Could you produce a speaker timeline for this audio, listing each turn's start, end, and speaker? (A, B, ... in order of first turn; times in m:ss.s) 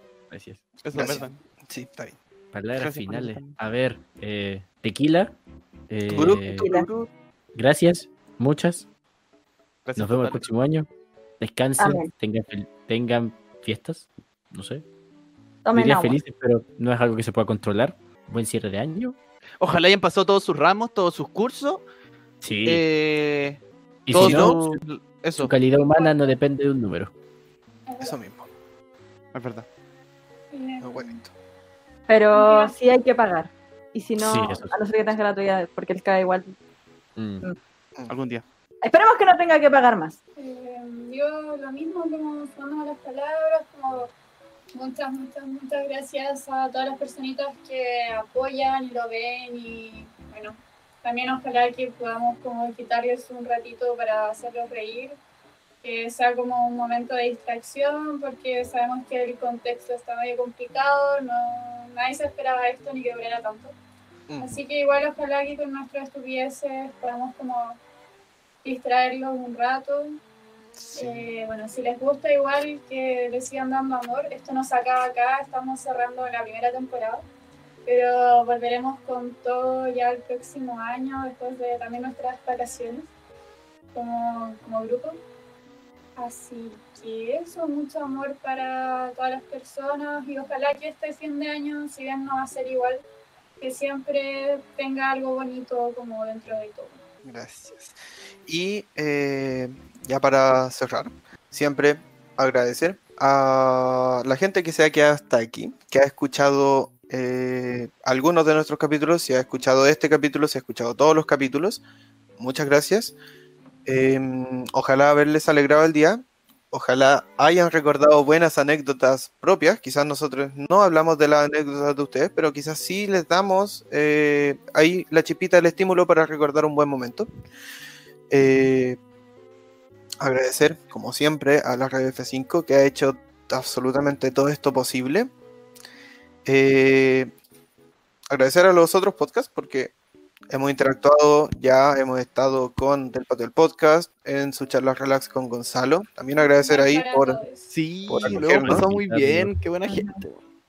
0:00.3-0:00.6 A
0:00.8-0:01.4 B
0:00.9-0:02.2 C
0:02.5-0:05.4 A
0:02.8-0:03.6 B
0:05.9-0:06.7 A
0:06.1-0:07.1 C
0:06.6-0:06.9 D
0:07.5-0:08.9 A
0:09.8-0:10.5 B
0:10.0-0:10.9 A
0:11.4-0:14.8 A
0:11.8-0:12.1 D
0:15.6-0:16.2 D
0:15.7-0:19.2 A
0:19.6-0:21.8 B
0:22.4-0:22.8 A
0:22.6-0:25.5 B
0:24.0-0:24.8 A
0:24.1-0:24.6 C
0:25.4-0:27.1 A
0:25.9-0:26.3 E
0:27.9-0:28.2 E
0:28.0-0:28.5 C
0:29.3-0:29.6 B
0:30.5-0:31.2 E
0:30.8-0:31.3 C
0:32.1-0:36.5 D
0:32.3-0:32.7 E
0:34.2-0:34.7 A
0:37.2-0:37.5 A
0:38.1-0:38.4 B
0:38.8-0:40.2 D
0:40.4-0:44.1 E
0:44.7-0:55.2 E
0:55.8-1:03.7 E
1:04.3-1:04.6 C
1:04.4-1:07.8 E
1:08.6-1:10.2 E
1:10.8-1:11.2 C
1:10.9-1:17.2 E
1:17.8-1:23.1 E
1:23.9-1:25.2 E
1:26.2-1:33.0 E
1:33.6-1:37.0 E
1:37.2-1:51.8 C
1:52.4-1:53.1 C
1:53.8-2:07.3 C
2:08.3-2:09.0 C
2:10.2-2:15.3 C
2:16.4-2:17.3 C
2:18.3-2:19.9 C
2:20.5-2:27.4 C
2:26.4-2:27.6 E
2:27.7-2:30.4 B
2:28.1-2:28.9 C
2:28.2-2:29.5 A
2:29.8-2:30.2 D